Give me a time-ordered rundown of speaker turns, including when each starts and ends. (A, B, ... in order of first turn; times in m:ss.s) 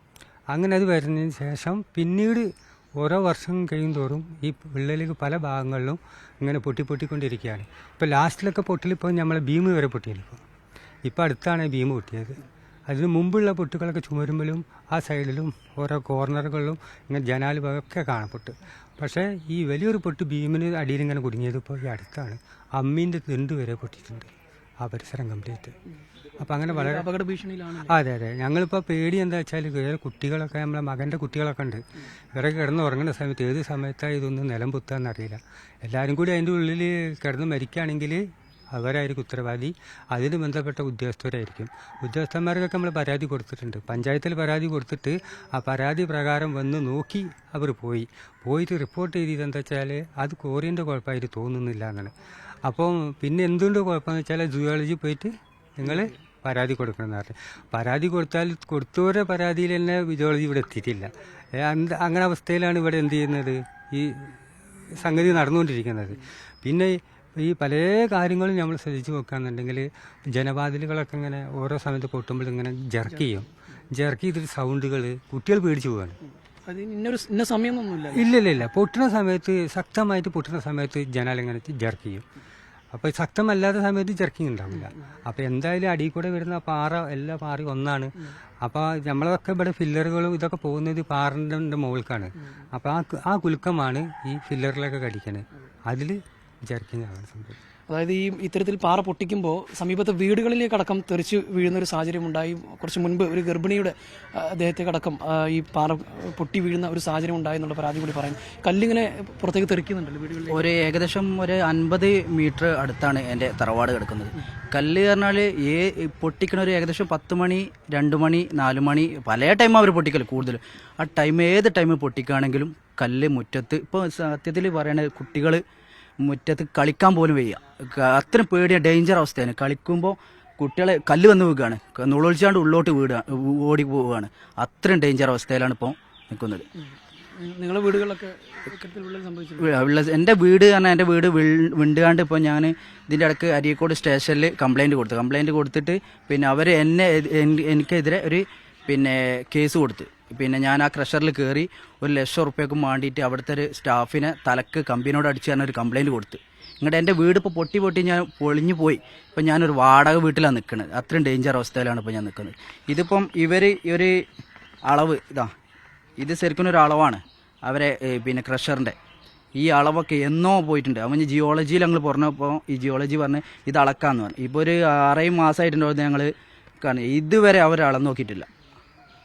0:00.5-0:02.4 A
0:03.0-0:10.4 A
0:11.0-0:24.3 A
0:24.8-0:25.7 A
0:26.4-0:27.0 A
0:26.7-0:27.9 B
0:27.8-0:31.8 A
0:32.3-0:38.2 A
0:38.7-0:52.1 A
0:52.6-1:04.3 A
1:04.9-1:16.2 A
1:16.7-1:18.3 B
1:18.1-1:22.2 A
1:22.9-1:28.1 A
1:28.6-1:36.2 A
1:36.7-1:37.6 A
1:37.9-1:50.6 B
1:50.5-2:05.6 C
2:06.2-2:16.6 C
2:16.8-2:19.7 B
2:19.6-2:44.2 C
2:44.8-2:45.5 C
2:46.2-2:49.0 C
2:49.6-2:58.5 C